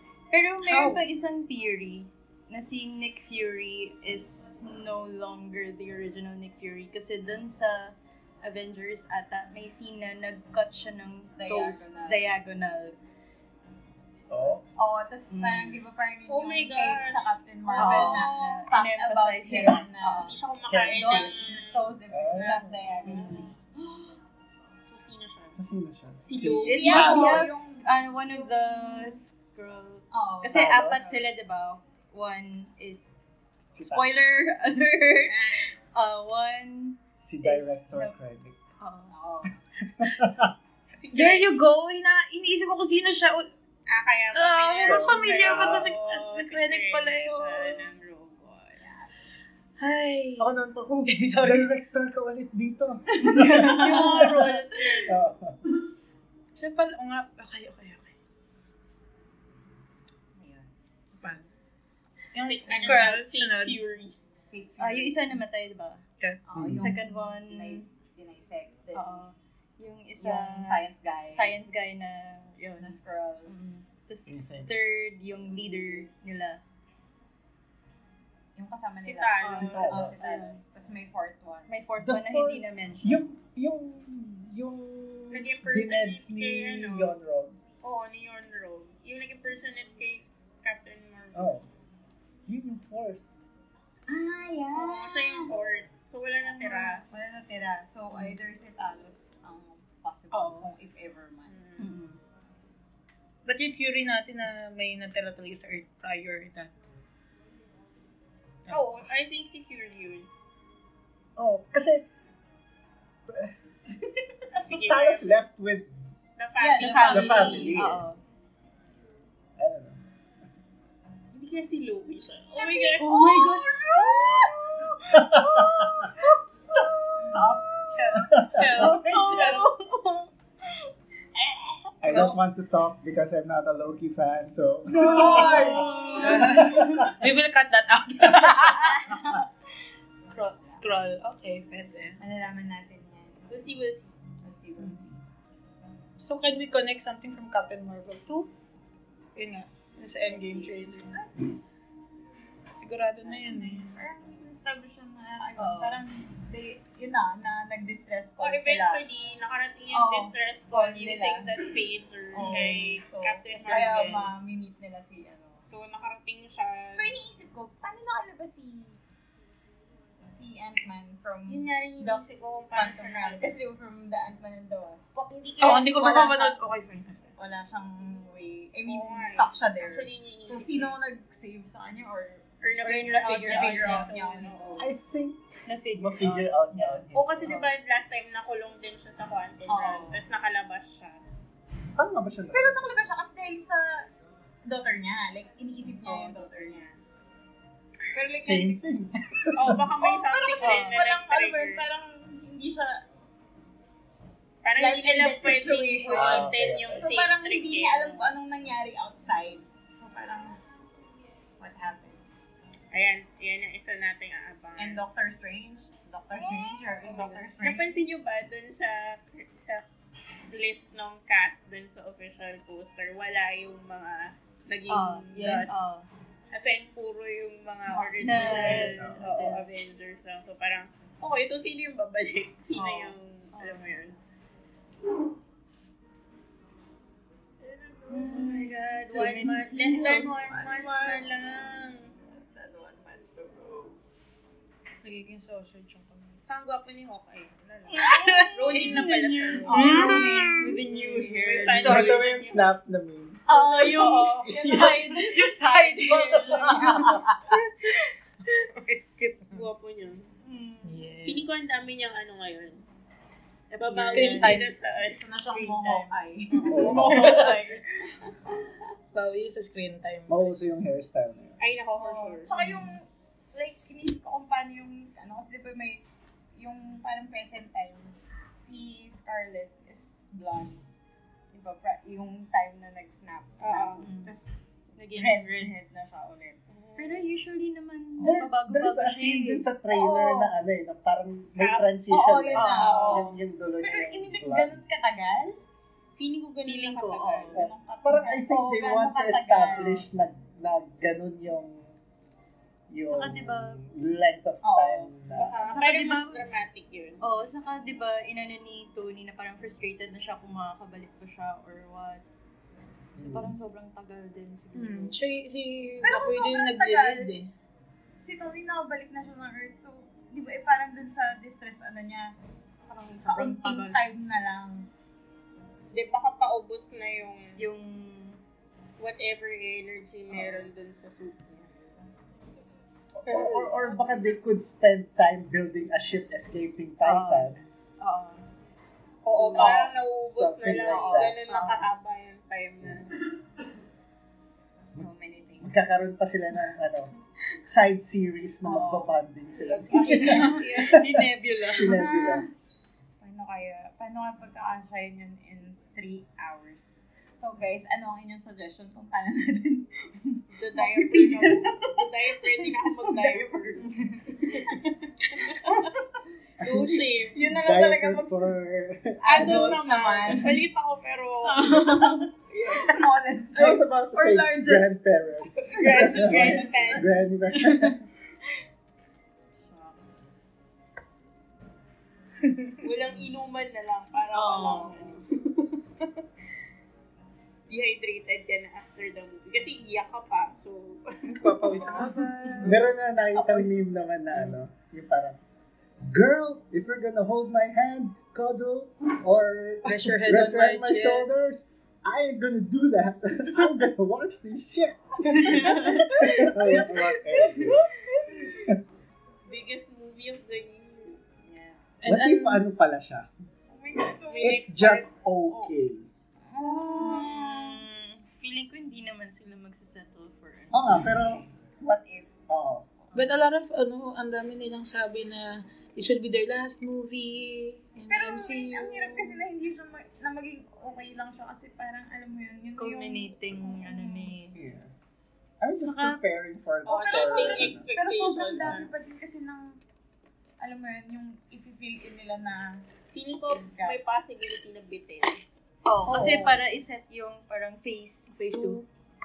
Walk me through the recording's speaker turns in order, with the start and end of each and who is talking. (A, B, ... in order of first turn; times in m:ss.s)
0:00.3-0:13.0 A
0:11.4-0:12.2 B
0:14.3-0:14.6 C
0:14.8-0:20.4 B
0:15.3-0:15.8 A
0:16.3-0:18.6 D
0:17.8-0:20.4 A
0:20.2-0:24.1 D
0:20.7-0:21.3 C
0:20.9-0:23.5 B
0:22.1-0:22.8 C
0:23.0-0:23.5 A
0:24.8-0:25.6 D
0:25.5-0:27.6 C
0:26.2-0:27.5 D
0:26.4-0:29.2 B
0:26.6-0:33.1 A
0:30.1-0:31.3 B
0:30.5-0:31.2 C
0:33.7-0:34.1 C
0:33.8-0:38.2 A
0:35.3-0:35.6 D
0:37.2-0:38.6 C
0:38.8-0:39.2 A
0:39.1-0:39.6 B
0:39.8-0:40.5 C
0:41.0-0:41.6 D
0:41.1-0:43.5 E
0:43.9-0:48.9 D
0:44.3-0:47.9 E
0:44.8-0:45.9 C
0:48.8-0:49.1 B
0:49.8-0:50.5 E
0:50.4-0:54.5 C
0:51.1-0:51.7 E
0:53.3-0:54.1 B
0:53.4-0:55.2 D
0:53.4-0:54.0 A
0:53.4-0:54.4 E
0:55.0-0:55.6 C
0:56.6-0:58.1 E
1:00.4-1:01.5 B
1:02.3-1:03.8 E
1:02.5-1:04.2 D
1:02.8-1:03.1 B
1:04.5-1:05.4 B
1:04.8-1:06.0 A
1:06.5-1:09.2 B
1:06.6-1:07.0 C
1:06.8-1:07.9 A
1:08.9-1:12.6 A
1:10.2-1:11.6 B
1:12.6-1:12.9 E
1:12.8-1:13.5 B
1:13.5-1:16.6 A
1:14.3-1:14.7 C
1:15.5-1:16.1 B
1:18.6-1:21.7 B
1:19.0-1:20.6 D
1:19.4-1:20.6 A
1:19.6-1:20.2 C
1:21.7-1:23.2 A
1:22.0-1:27.6 C
1:25.3-1:27.2 D
1:27.8-1:31.5 D
1:31.3-1:31.7 C
1:32.5-1:33.2 C
1:34.1-1:35.6 B
1:34.7-1:37.1 D
1:36.6-1:41.5 B
1:38.1-1:38.4 A
1:40.3-1:40.7 A
1:41.5-1:41.9 D
1:41.8-1:42.2 A
1:43.5-1:46.7 E
1:48.7-1:50.3 D
1:51.4-1:52.0 C
1:53.3-1:55.9 C
1:54.5-1:55.4 D
1:56.4-1:57.8 D
1:56.6-1:57.9 B
1:56.8-1:58.2 A
1:56.9-1:58.0 C
1:59.6-2:00.0 C
2:01.3-2:04.6 D
2:02.6-2:03.1 B
2:03.0-2:04.5 A
2:04.0-2:04.5 B
2:05.1-2:06.1 C
2:07.2-2:08.2 B
2:08.2-2:09.1 C
2:08.6-2:09.8 D
2:08.7-2:09.7 B
2:08.8-2:09.6 A
2:11.4-2:12.3 D
2:12.0-2:17.2 C
2:12.1-2:12.5 E
2:14.9-2:16.8 B
2:15.0-2:16.5 D
2:15.1-2:16.9 A
2:15.1-2:19.2 E
2:18.9-2:19.4 B
2:20.3-2:22.2 E
2:22.2-2:23.5 B
2:23.5-2:24.1 D
2:24.4-2:25.2 B
2:26.2-2:28.5 E
2:29.4-2:31.2 E
2:30.3-2:31.3 B
2:32.7-2:34.0 E
2:33.2-2:39.0 B
2:35.6-2:36.0 A
2:38.4-2:44.3 D
2:39.9-2:41.8 B
2:42.3-2:45.6 B
2:42.4-2:42.8 A
2:43.7-2:44.2 A
2:45.7-2:47.1 D
2:46.9-2:49.0 B
2:50.4-2:56.6 B
2:51.5-2:53.6 D
2:55.1-2:55.9 D
2:55.6-2:57.4 E
2:57.4-3:04.9 B
2:58.8-3:01.0 D
3:02.6-3:04.8 D
3:02.8-3:04.1 A
3:04.8-3:07.7 C
3:05.7-3:07.7 A
3:07.1-3:11.2 D
3:09.7-3:10.2 B
3:12.0-3:13.1 C
3:12.5-3:14.1 B
3:14.6-3:16.8 B
3:16.0-3:17.0 D
3:18.1-3:18.8 B
3:18.3-3:19.9 C
3:19.5-3:21.9 D
3:20.0-3:23.0 B
3:20.6-3:21.0 A
3:24.6-3:28.3 D
3:24.8-3:30.6 B
3:26.1-3:27.1 C
3:31.6-3:32.2 B
3:32.9-3:35.0 D
3:34.8-3:38.0 B
3:36.4-3:39.8 D
3:40.5-3:45.9 D
3:44.9-3:46.1 A
3:46.5-3:54.2 D
3:47.9-3:48.9 B
3:48.2-3:49.7 A
3:48.4-3:49.2 C
3:52.8-3:54.2 A
3:57.6-4:02.1 D
3:58.1-4:00.6 A
3:59.9-4:01.3 B
4:02.3-4:03.9 B
4:05.0-4:06.4 E
4:06.4-4:12.7 D
4:07.9-4:11.9 A
4:08.0-4:09.0 E
4:09.7-4:10.6 B
4:09.7-4:12.3 E
4:11.8-4:13.4 C
4:13.5-4:17.2 A
4:13.5-4:15.2 D
4:13.8-4:15.4 B
4:14.6-4:17.6 E
4:16.1-4:17.1 B
4:16.2-4:16.7 D
4:16.5-4:17.1 C
4:18.6-4:19.6 E
4:19.5-4:20.3 D
4:20.4-4:21.0 A
4:20.8-4:21.6 E
4:21.2-4:22.8 D
4:23.7-4:24.6 A
4:23.8-4:25.5 D
4:24.0-4:27.7 E
4:25.5-4:27.8 B
4:26.6-4:27.4 D
4:26.7-4:27.7 A
4:26.7-4:27.4 C
4:29.1-4:30.5 E
4:30.3-4:31.6 C
4:31.6-4:32.6 D
4:32.0-4:36.0 B
4:36.6-4:40.8 B
4:41.5-4:44.6 B
4:43.6-4:44.1 D
4:44.0-4:44.3 A
4:45.0-4:45.8 A
4:45.1-4:46.6 B
4:46.7-4:47.3 D
4:47.0-4:49.6 A
4:48.2-4:54.8 C
4:49.9-4:50.5 B
4:51.6-4:52.0 D
4:52.1-4:55.6 B
4:52.5-4:53.1 A
4:52.6-4:53.4 D
4:56.2-4:57.6 D
4:56.7-4:57.6 A
4:57.5-5:00.0 B
4:57.5-5:02.0 C
5:02.9-5:05.5 C
5:03.0-5:03.8 A
5:04.6-5:05.1 B
5:05.3-5:07.2 D
5:05.6-5:06.4 A
5:07.2-5:12.2 A
5:13.2-5:13.6 C
5:13.2-5:15.2 A
5:14.7-5:17.5 E
5:16.0-5:17.4 B
5:18.2-5:22.3 B
5:22.9-5:24.0 A
5:23.2-5:24.9 B
5:25.9-5:27.7 D
5:27.6-5:28.4 A
5:29.0-5:31.7 D
5:30.3-5:30.7 A
5:33.2-5:37.6 C
5:33.3-5:33.7 D
5:37.0-5:38.4 A
5:39.2-5:43.2 D
5:39.4-5:39.8 A
5:39.5-5:39.9 B
5:39.6-5:41.4 C
5:40.8-5:41.4 B
5:41.5-5:41.9 A
5:44.9-5:45.8 B
5:45.6-5:47.1 C
5:47.6-5:51.2 C
5:48.6-5:50.8 B
5:49.6-5:51.1 D
5:49.9-5:52.0 A
5:51.7-5:52.5 C
5:51.8-5:52.5 B
5:53.2-6:06.0 B
6:00.6-6:03.9 D
6:04.4-6:04.8 D
6:05.3-6:05.9 D
6:06.6-6:07.4 D
6:06.6-6:09.9 C
6:07.3-6:08.5 B
6:09.2-6:10.6 B
6:09.3-6:11.9 D
6:11.4-6:12.3 A
6:11.6-6:14.9 B
6:12.7-6:13.0 D
6:13.6-6:18.0 C
6:15.7-6:17.2 D
6:15.7-6:17.0 B
6:17.6-6:17.9 B
6:19.7-6:20.3 B
6:22.5-6:22.7 E
6:22.8-6:25.3 D
6:24.3-6:25.2 A
6:27.7-6:32.0 D
6:31.2-6:32.8 E
6:31.7-6:32.7 A
6:32.6-6:35.4 C
6:33.3-6:33.7 B
6:36.1-6:47.8 C
6:39.8-6:41.3 E
6:45.3-6:48.4 A
6:45.3-6:46.0 B
6:49.5-6:51.2 D
6:51.4-6:52.0 B
6:52.0-6:52.6 E
6:52.0-6:53.3 C
6:53.7-6:54.6 B
6:54.3-6:55.1 D
6:54.4-6:56.1 C
6:55.5-6:55.7 B
6:56.4-6:57.8 B
6:56.8-7:00.9 A
7:00.7-7:01.5 C
7:01.8-7:02.4 B
7:02.5-7:02.8 C
7:03.0-7:03.2 B
7:03.1-7:09.4 E
7:08.1-7:14.3 B
7:12.8-7:14.6 A
7:14.5-7:14.9 C
7:15.6-7:17.9 C
7:15.8-7:16.2 A
7:16.8-7:18.9 D
7:16.9-7:19.8 B
7:20.6-7:22.8 B
7:23.1-7:25.4 D
7:23.5-7:24.0 B
7:25.9-7:26.6 B
7:26.0-7:28.8 A
7:26.1-7:26.5 E
7:28.3-7:28.9 E